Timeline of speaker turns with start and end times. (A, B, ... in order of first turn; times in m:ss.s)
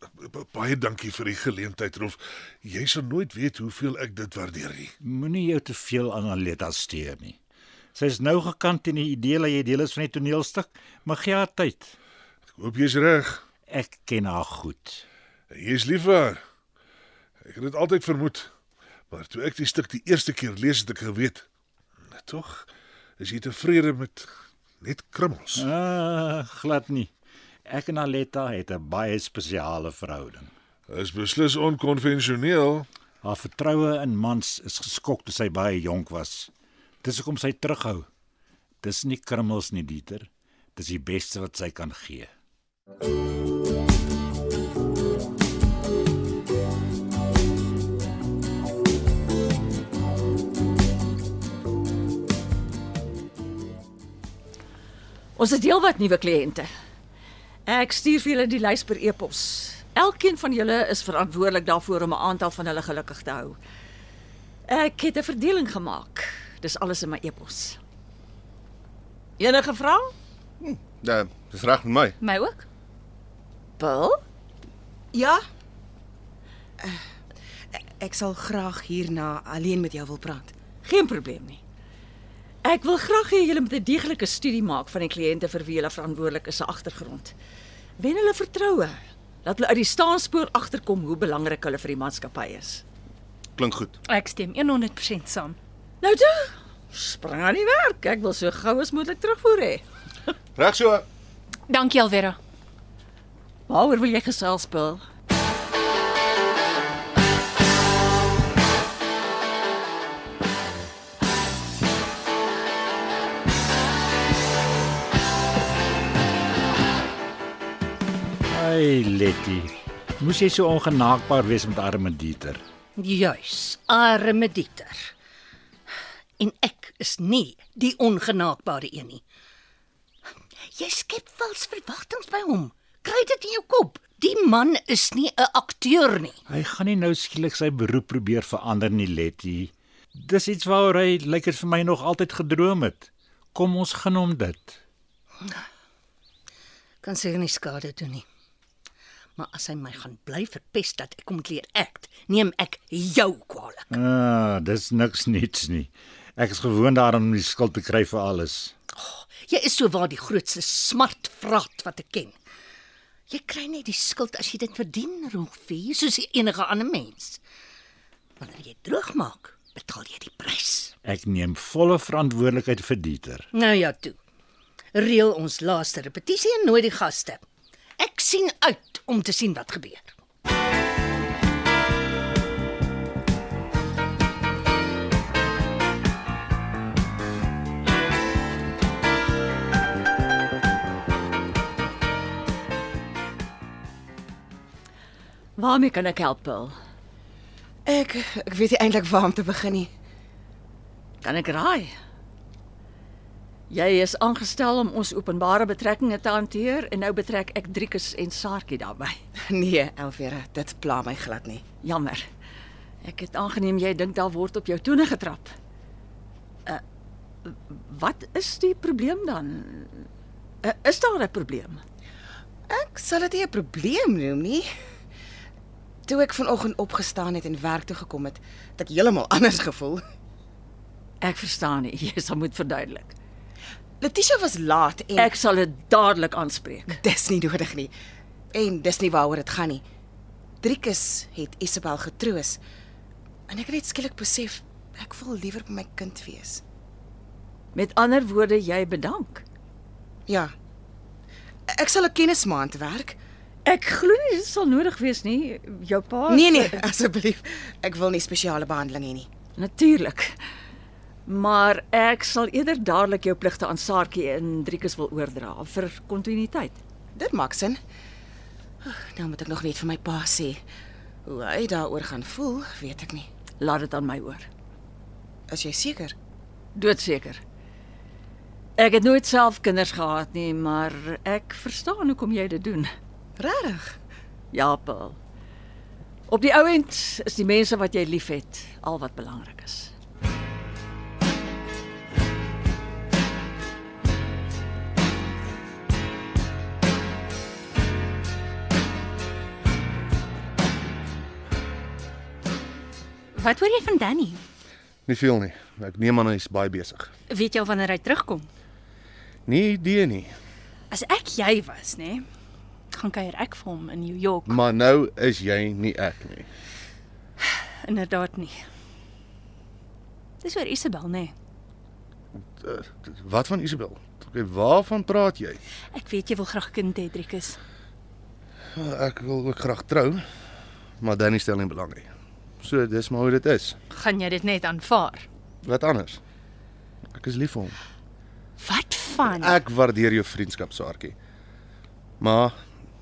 0:00.2-0:04.9 A
0:05.0-0:07.4 B
0:07.9-0:11.9 B
0:12.5-0:13.4 A
0:13.7-0:15.0 B
0:15.5-0:16.4 A
0:17.4-0:18.5 A
0:19.1-0:21.4 A
0:22.1-0:24.3 A
0:24.8-0:25.6 A
0:25.5-0:27.1 B
0:27.6-0:30.5 B
0:30.9-0:32.9 A
0:33.2-0:36.5 B
0:37.0-0:38.1 B
0:38.8-0:42.3 B
0:55.4-0:56.7 C
0:57.7-1:03.6 C
1:04.7-1:07.8 C
1:09.4-1:10.1 C
1:10.6-1:12.2 D
1:12.2-1:12.6 E
1:13.8-1:14.2 C
1:15.1-1:15.4 F
1:17.7-1:20.5 F
1:20.8-1:21.6 C
1:22.6-1:27.3 C
1:28.0-1:32.8 C
1:33.6-1:33.9 D
1:34.1-1:35.6 E
1:36.0-1:39.8 C
1:40.6-1:41.0 D
1:41.7-1:42.4 E
1:43.7-1:45.0 C
1:58.5-2:02.6 B
2:03.0-2:05.1 G
2:06.4-2:09.2 G
2:10.7-2:16.4 G
2:16.5-2:24.8 B
2:27.0-2:28.2 G
2:29.4-2:33.9 G
2:33.9-2:38.7 B
2:39.0-2:42.4 G
2:43.3-2:47.4 G
2:48.4-2:50.9 G
2:51.0-2:53.5 B
2:53.5-2:54.2 G
2:54.9-2:57.4 G
2:58.0-3:00.2 G
3:15.6-3:16.8 C
3:17.8-3:19.9 F
3:21.2-3:21.9 C
3:23.7-3:29.2 C
3:29.5-3:31.6 F
3:31.8-3:32.3 C
3:33.0-3:35.5 C
3:37.4-3:40.0 C
3:40.6-3:41.8 C
3:42.7-3:44.6 F
3:46.0-3:50.0 F
3:51.2-3:53.1 C
3:54.0-3:55.3 F
3:55.2-3:57.0 C
3:56.9-3:57.9 F
3:58.5-3:59.8 F
4:00.6-4:02.6 F
4:03.5-4:06.6 F
4:07.7-4:09.4 C
4:11.7-4:13.2 F
4:13.6-4:16.8 C
4:16.3-4:19.3 F
4:19.6-4:20.3 C
4:21.2-4:26.8 C
4:27.1-4:27.8 F
4:28.8-4:30.6 F
4:31.2-4:33.3 F
4:33.6-4:34.5 C
4:35.5-4:36.1 F
4:36.7-4:37.4 C
4:38.8-4:42.9 C
4:43.4-4:44.0 F
4:44.5-4:45.2 C
4:46.3-4:49.9 C
5:03.3-5:04.4 E
5:05.0-5:07.1 D
5:07.3-5:08.5 E
5:09.4-5:10.3 D
5:10.9-5:12.2 E
5:12.9-5:14.6 E
5:14.4-5:16.5 D
5:17.8-5:18.6 E
5:20.4-5:21.3 E
5:22.6-5:25.6 D
5:25.9-5:27.6 E
5:28.7-5:30.2 D
5:31.0-5:32.1 D
5:32.6-5:33.8 D
5:33.9-5:35.2 E
5:35.6-5:36.2 D
5:37.1-5:37.8 D
5:38.6-5:39.6 E
5:39.2-5:41.2 D
5:42.2-5:42.6 D